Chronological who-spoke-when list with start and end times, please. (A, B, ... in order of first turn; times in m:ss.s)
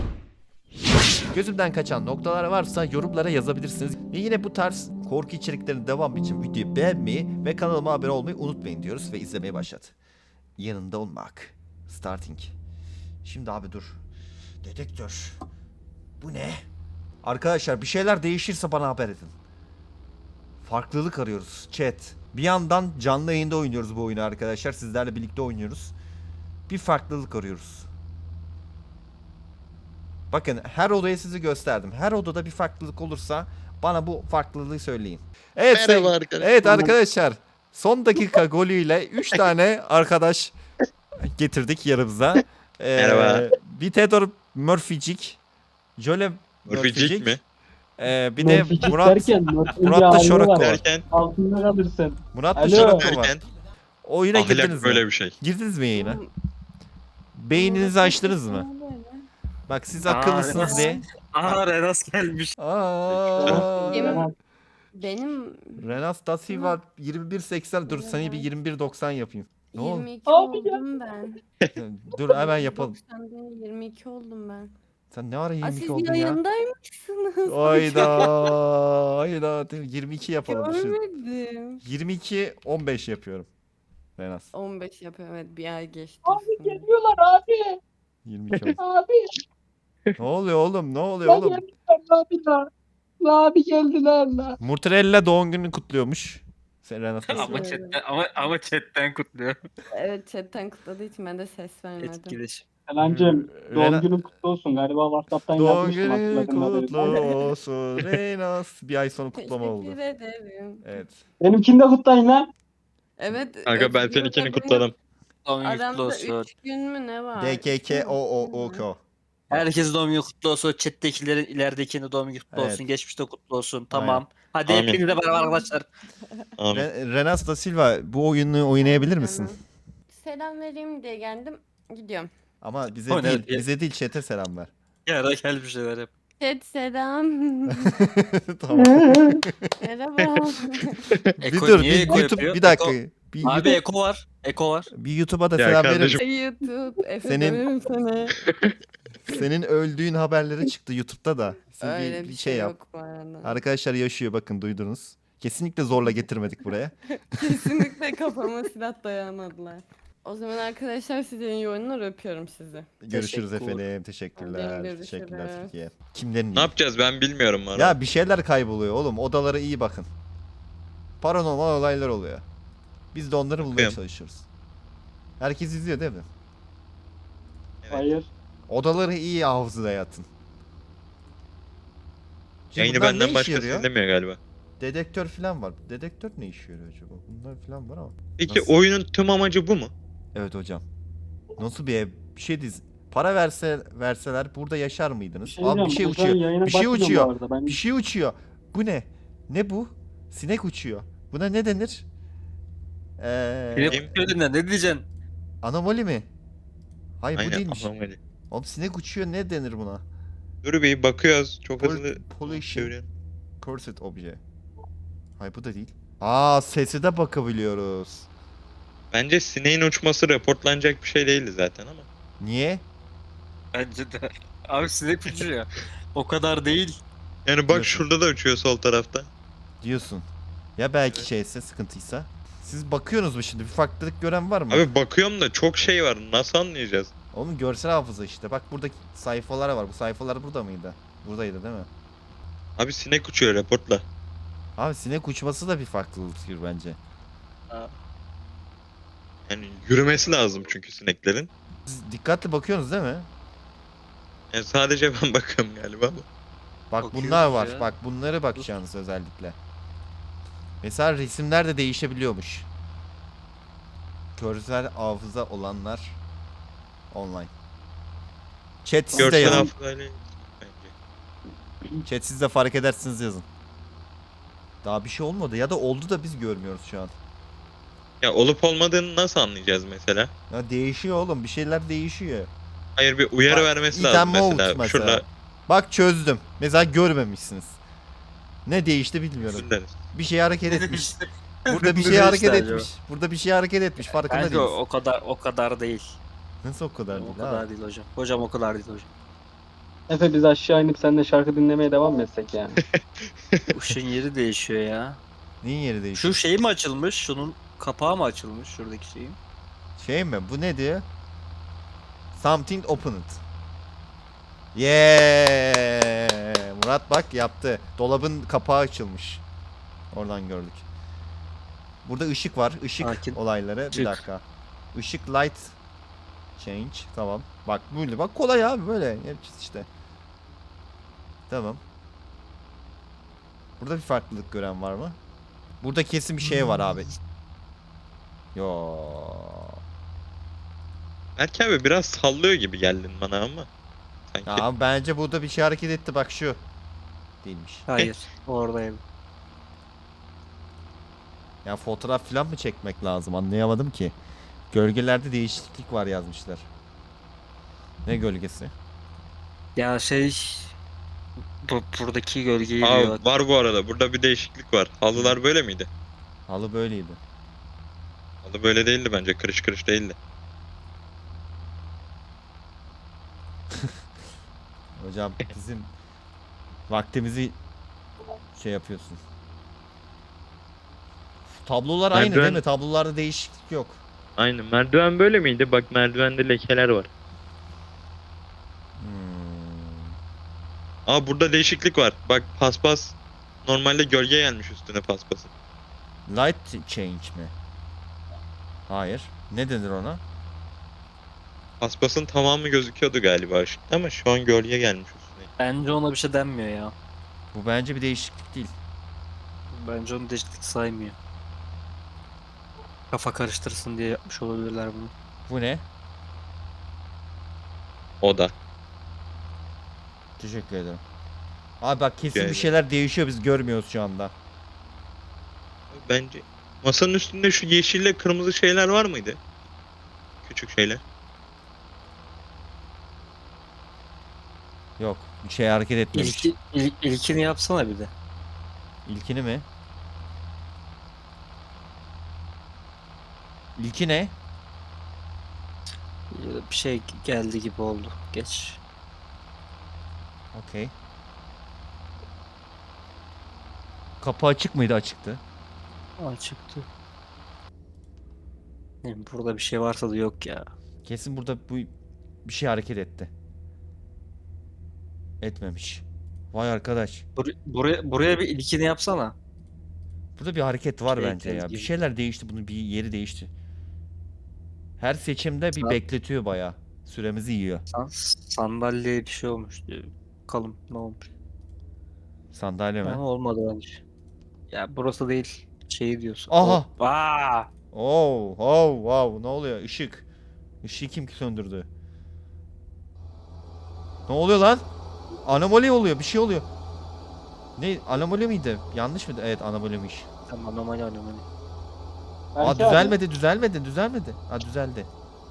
0:01.3-0:10.0 A
0:10.6-0:12.6 A
0:13.2-0:14.0 A
0:14.6-0:15.4 A
0:16.2-0:16.6 A
0:17.2-0:19.3 A
0:20.6-0:25.9 A
0:26.7-0:27.9 A
0:30.3-0:40.6 A
0:35.7-0:36.9 B
0:41.2-0:45.4 A
0:43.0-0:43.5 B
0:46.0-0:47.4 A
0:46.7-0:47.4 B
0:48.0-0:50.8 A
0:48.4-0:53.1 C
0:50.6-0:51.0 B
0:52.3-0:53.4 A
0:52.7-0:53.4 B
0:54.0-0:56.2 A
0:54.3-0:55.4 B
0:56.0-0:56.3 D
0:57.4-0:58.7 A
0:57.5-0:59.3 D
0:59.7-1:01.0 A
1:00.1-1:02.6 E
1:00.5-1:01.0 D
1:02.6-1:04.2 A
1:03.1-1:03.7 B
1:03.4-1:04.3 C
1:03.8-1:04.3 D
1:05.0-1:06.0 D
1:05.8-1:10.1 A
1:06.5-1:06.8 D
1:07.9-1:08.5 D
1:09.7-1:11.4 D
1:10.3-1:10.8 C
1:11.8-1:13.0 A
1:12.3-1:14.7 D
1:15.1-1:16.4 A
1:15.6-1:18.3 D
1:17.5-1:21.0 A
1:20.5-1:21.8 D
1:21.8-1:23.5 A
1:24.2-1:24.5 A
1:24.5-1:26.9 D
1:26.2-1:27.8 C
1:28.2-1:28.8 A
1:28.5-1:28.8 B
1:28.8-1:29.4 C
1:30.2-1:31.6 A
1:31.2-1:32.7 C
1:33.2-1:34.6 C
1:34.6-1:37.8 A
1:37.3-1:39.6 E
1:37.4-1:38.0 D
1:39.9-1:42.4 D
1:42.0-1:42.7 E
1:42.9-1:47.4 C
1:43.0-1:44.1 A
1:45.6-1:50.0 A
1:46.4-1:47.0 D
1:49.4-1:50.9 D
1:50.8-1:51.2 A
1:51.4-1:52.5 C
1:53.2-1:54.9 D
1:53.7-1:54.9 B
1:55.5-1:56.5 E
1:55.6-1:58.9 D
1:57.4-1:59.0 A
1:59.5-2:05.9 E
2:02.5-2:02.8 A
2:03.9-2:04.2 A
2:04.7-2:05.1 B
2:05.2-2:05.6 D
2:06.6-2:06.9 B
2:06.7-2:09.5 A
2:08.8-2:09.6 D
2:10.1-2:12.3 D
2:12.6-2:14.7 A
2:13.1-2:13.7 E
2:15.1-2:16.1 E
2:16.4-2:18.0 D
2:17.8-2:19.7 A
2:19.8-2:21.0 D
2:21.1-2:21.3 B
2:21.4-2:24.9 E
2:21.4-2:23.8 A
2:24.9-2:26.2 A
2:25.6-2:26.2 B
2:26.1-2:28.3 D
2:27.2-2:27.6 A
2:28.3-2:28.8 B
2:29.3-2:32.8 A
2:31.8-2:33.6 D
2:33.4-2:38.0 A
2:37.3-2:42.9 D
2:43.0-2:46.7 A
2:43.1-2:43.8 E
2:44.4-2:45.7 D
2:46.6-2:48.0 B
2:47.7-2:50.1 A
2:51.2-2:52.4 A
2:53.1-2:54.5 A
2:53.6-2:54.0 B
2:55.4-2:56.3 A
2:57.8-2:58.1 B
2:57.9-2:58.3 C
2:58.7-3:00.3 A
3:02.7-3:03.9 A
3:02.8-3:04.4 B
3:04.8-3:08.7 A
3:08.4-3:09.9 B
3:10.3-3:10.8 A
3:11.6-3:22.1 A
3:15.4-3:17.8 C
3:23.2-3:24.1 A
3:23.7-3:25.0 E
3:23.9-3:24.2 B
3:25.6-3:26.3 A
3:27.2-3:27.9 A
3:27.4-3:28.2 B
3:28.5-3:30.0 A
3:30.6-3:33.1 B
3:31.8-3:32.9 A
3:33.6-3:34.4 A
3:35.4-3:38.3 A
3:39.1-3:42.1 B
3:42.4-3:42.8 A
3:43.7-3:47.0 E
3:47.5-3:49.3 B
3:47.7-3:48.1 A
3:49.8-3:54.9 A
3:54.7-3:57.1 B
3:57.3-4:01.9 A
4:02.8-4:04.0 B
4:04.8-4:07.0 A
4:09.5-4:11.5 B
4:11.9-4:13.3 A
4:14.5-4:16.3 B
4:16.9-4:19.6 A
4:17.0-4:17.9 E
4:20.8-4:22.7 A
4:24.4-4:26.2 A
4:27.1-4:27.5 A
4:28.8-4:29.7 A
4:29.2-4:30.9 B
4:29.2-4:29.6 C
4:32.0-4:33.5 A
4:34.8-4:37.1 A
4:38.2-4:40.3 B
4:40.5-4:42.5 A
4:43.0-4:45.3 B
4:43.5-4:47.8 A
4:48.7-4:51.1 A
4:49.4-4:50.0 B
4:50.7-4:52.9 E
4:51.7-4:54.8 A
4:54.1-4:56.2 E
4:56.6-4:57.6 A
4:57.1-4:59.1 E
5:00.1-5:02.8 C
5:03.7-5:05.2 E
5:05.6-5:06.4 A
5:06.1-5:09.4 E
5:10.0-5:11.0 A
5:12.4-5:13.4 A
5:14.8-5:19.4 A
5:20.1-5:20.9 A
5:22.0-5:24.4 A
5:23.0-5:23.4 E
5:23.9-5:24.2 E
5:24.9-5:25.8 A
5:26.6-5:29.9 A
5:31.5-5:31.8 A
5:33.8-5:35.2 A
5:35.8-5:37.1 A
5:36.5-5:37.0 E
5:38.6-5:39.8 A
5:41.4-5:43.7 B
5:44.3-5:44.7 B
5:44.5-5:46.6 A
5:47.4-5:47.9 A
5:47.9-5:49.0 E
5:51.6-5:54.2 A
5:54.7-5:56.7 A
5:58.0-5:58.7 A
5:59.8-6:00.8 E
6:01.6-6:03.2 E
6:02.8-6:05.9 B
6:06.5-6:07.2 A
6:08.4-6:10.2 B
6:15.0-6:15.9 A
6:16.9-6:17.6 A
6:18.6-6:19.2 A
6:21.5-6:24.0 A
6:22.1-6:22.6 B
6:24.4-6:27.1 B
6:29.0-6:30.2 A
6:31.1-6:35.5 B
6:36.3-6:37.5 A
6:38.9-6:40.2 A
6:41.8-6:45.5 B
6:45.6-6:47.0 E
6:47.5-6:48.7 A
6:49.7-6:51.2 E
6:53.1-6:55.1 E
6:55.5-6:55.8 A
6:58.2-6:58.5 B
7:00.4-7:01.0 A
7:01.8-7:04.3 A
7:02.4-7:02.7 B
7:05.9-7:09.4 B
7:10.4-7:11.0 B
7:15.0-7:16.5 A
7:16.1-7:18.1 E
7:19.1-7:19.6 A
7:23.8-7:24.4 A
7:26.3-7:28.8 E
7:30.5-7:30.9 A
7:34.2-7:35.4 A
7:36.2-7:36.9 E
7:39.0-7:40.7 E
7:41.0-7:41.9 A
7:42.4-7:43.3 A
7:45.4-7:47.3 A
7:47.4-7:49.3 E
7:50.4-7:53.5 A
7:51.1-7:51.9 E
7:55.0-7:57.8 A
7:57.9-8:01.3 E
8:02.5-8:03.2 A
8:03.0-8:04.0 E
8:04.7-8:07.7 E
8:06.5-8:06.9 A
8:07.9-8:10.3 A
8:10.8-8:11.9 A
8:14.3-8:14.8 A
8:15.4-8:16.7 A
8:17.8-8:20.3 A
8:20.5-8:21.5 E
8:22.6-8:23.2 C
8:22.6-8:25.1 A